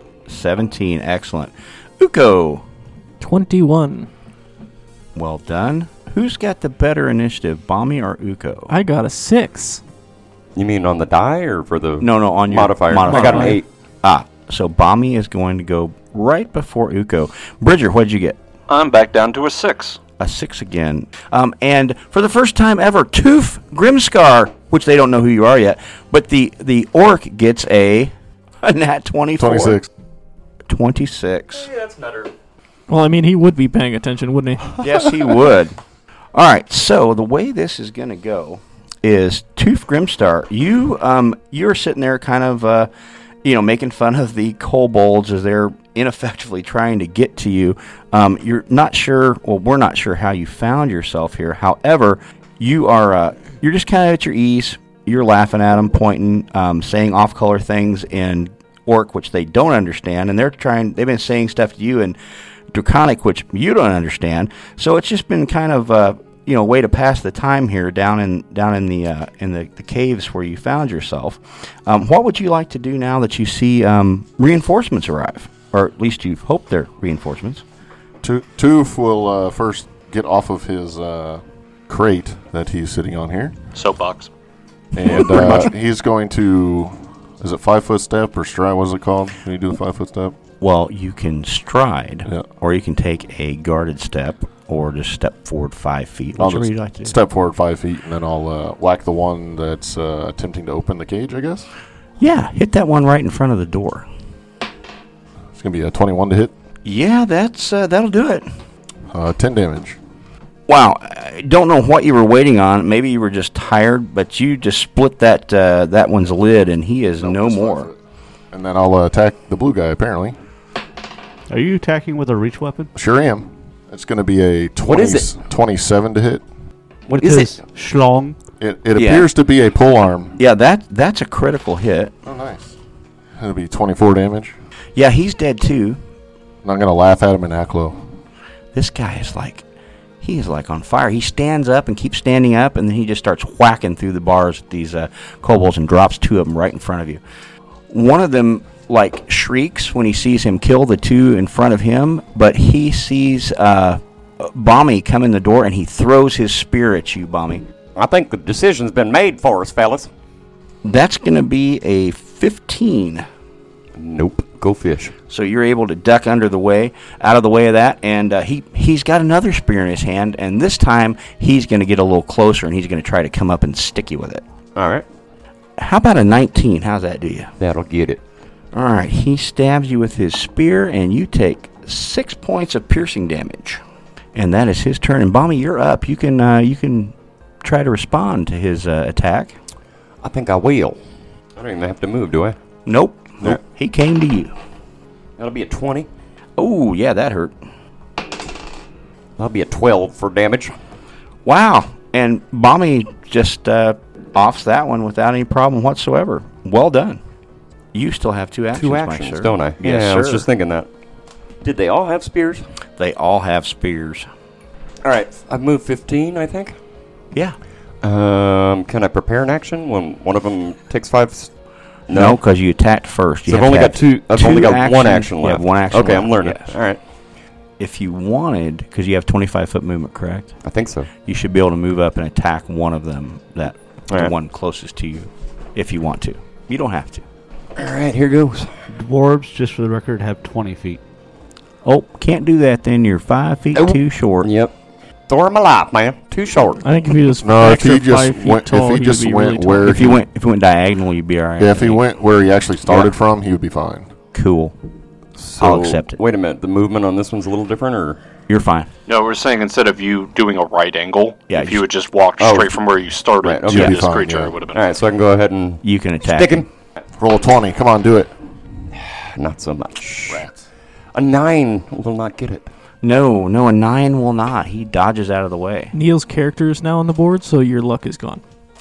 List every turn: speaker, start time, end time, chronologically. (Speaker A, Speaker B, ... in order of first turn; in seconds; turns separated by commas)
Speaker A: 0.3-2.6, Speaker B: 3.2-4.1, Speaker A: 5.2-8.7, Speaker B: 8.7-9.8, Speaker C: 10.6-13.7, Speaker A: 12.0-18.4, Speaker B: 13.1-13.5, Speaker D: 18.7-20.0, Speaker A: 20.2-29.8, Speaker E: 29.4-29.9, Speaker A: 30.7-31.7, Speaker C: 31.6-32.3, Speaker B: 32.9-34.7, Speaker A: 34.8-35.8, Speaker A: 36.3-42.9, Speaker A: 43.4-62.2, Speaker A: 62.7-77.6, Speaker E: 78.2-83.6, Speaker D: 83.8-84.3, Speaker E: 84.9-90.3, Speaker A: 85.3-85.7, Speaker A: 90.6-97.2, Speaker E: 96.4-101.7, Speaker A: 102.2-104.1, Speaker E: 105.6-106.5, Speaker A: 106.8-108.5, Speaker E: 109.1-110.0, Speaker A: 110.7-117.9, Speaker E: 117.2-118.0, Speaker E: 118.5-120.4, Speaker F: 121.5-122.9, Speaker E: 123.0-126.4, Speaker C: 124.8-125.3, Speaker C: 127.1-127.6, Speaker F: 127.1-128.4, Speaker E: 128.6-130.4, Speaker A: 128.9-129.3, Speaker A: 130.4-132.1, Speaker E: 132.3-132.8, Speaker E: 133.4-134.5, Speaker A: 134.9-136.0, Speaker E: 136.6-138.0, Speaker A: 138.7-139.7, Speaker A: 140.2-147.2, Speaker A: 147.9-157.7, Speaker C: 158.0-160.1, Speaker A: 160.8-163.3, Speaker C: 164.0-165.1, Speaker A: 165.3-174.4, Speaker C: 174.8-175.1, Speaker A: 175.8-177.5, Speaker C: 177.6-178.2, Speaker A: 178.7-183.8, Speaker A: 184.3-189.6, Speaker C: 190.2-191.0, Speaker C: 191.6-192.6, Speaker A: 192.9-194.5, Speaker C: 195.4-196.1, Speaker A: 196.6-197.5, Speaker C: 199.4-200.7, Speaker A: 201.4-207.2, Speaker A: 207.9-210.5, Speaker C: 208.8-210.9, Speaker C: 211.6-212.7, Speaker A: 213.0-214.3, Speaker C: 215.0-216.8, Speaker C: 218.0-221.5, Speaker C: 222.1-222.4, Speaker A: 222.1-226.8, Speaker C: 223.5-227.0, Speaker A: 227.8-230.5, Speaker C: 230.6-231.1, Speaker A: 231.2-237.2, Speaker C: 237.8-238.7, Speaker F: 238.9-241.0, Speaker A: 241.8-244.5, Speaker C: 243.8-244.7, Speaker C: 245.3-246.8, Speaker B: 246.8-250.1, Speaker E: 247.4-250.2, Speaker A: 249.8-252.0, Speaker E: 251.6-254.1, Speaker A: 252.8-253.1, Speaker A: 254.3-254.8, Speaker C: 255.4-258.2, Speaker A: 255.6-256.2, Speaker A: 258.5-258.9, Speaker D: 259.1-264.8, Speaker A: 261.5-261.9, Speaker C: 262.4-262.8, Speaker C: 263.4-264.0, Speaker E: 263.7-264.6, Speaker C: 264.7-266.7, Speaker A: 265.8-266.6, Speaker E: 267.2-268.3, Speaker C: 268.9-270.5, Speaker C: 271.1-272.7, Speaker A: 273.0-275.9, Speaker B: 275.9-278.4